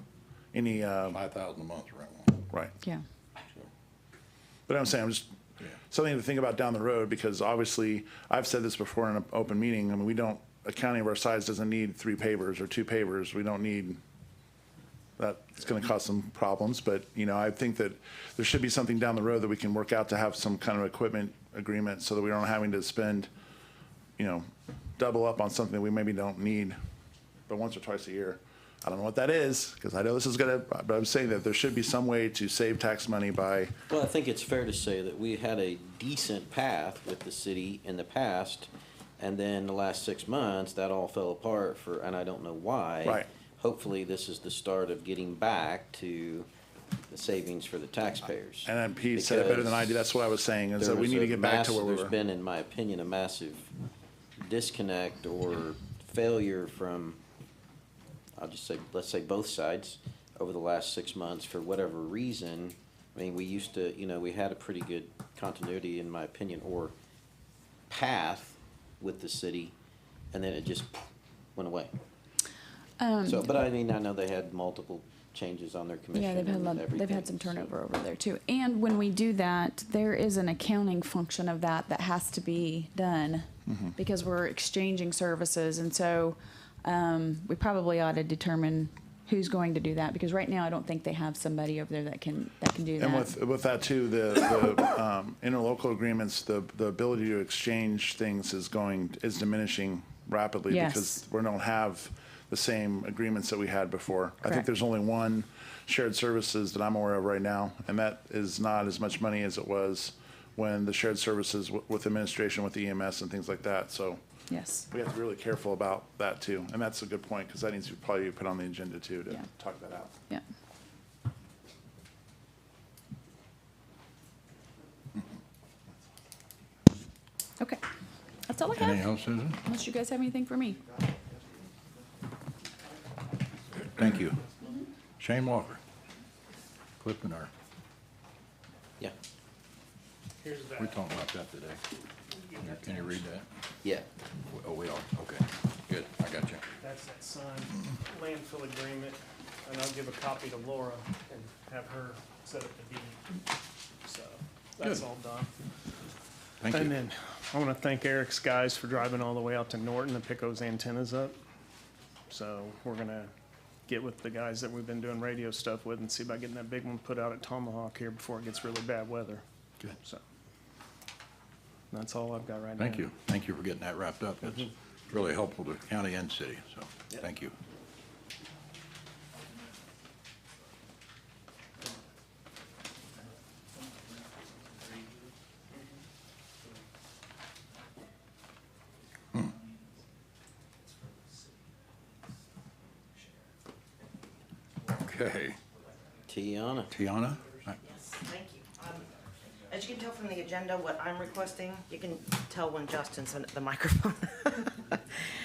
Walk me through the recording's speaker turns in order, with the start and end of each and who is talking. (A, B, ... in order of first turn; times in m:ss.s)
0:00.5-0:01.2 A
0:01.1-0:02.4 B
0:04.7-0:05.3 A
0:05.9-0:14.0 A
0:15.2-0:23.3 A
0:24.2-0:24.4 A
0:25.0-0:26.8 A
0:27.5-0:33.8 A
0:33.9-0:46.5 C
0:47.1-0:50.1 C
0:48.7-0:52.1 A
0:50.8-0:53.7 C
0:54.4-0:57.2 C
0:58.4-1:06.9 C
1:07.9-1:09.7 C
1:10.3-1:11.0 C
1:11.6-1:11.9 C
1:13.0-1:13.5 D
1:13.2-1:17.7 C
1:16.1-1:33.4 D
1:23.7-1:24.0 A
1:33.0-1:54.2 A
1:40.7-1:41.2 D
1:54.5-1:54.9 D
1:54.9-2:00.1 A
2:07.6-2:07.8 D
2:08.5-2:09.1 D
2:08.8-2:09.6 B
2:09.6-2:10.8 D
2:13.8-2:14.5 B
2:15.2-2:15.8 B
2:17.0-2:17.5 B
2:20.4-2:21.1 E
2:20.7-2:21.8 B
2:22.5-2:23.2 E
2:22.6-2:23.5 B
2:24.5-2:26.6 B
2:26.8-2:33.2 E
2:34.0-2:35.5 E
2:36.6-2:37.0 B
2:36.7-2:41.4 E
2:42.3-2:43.3 E
2:43.9-2:49.4 E
2:51.9-2:53.1 E
2:52.8-2:57.6 B
3:15.0-3:15.6 B
3:16.3-3:17.0 C
3:16.9-3:17.8 B
3:17.8-3:19.1 F
3:19.7-3:25.0 F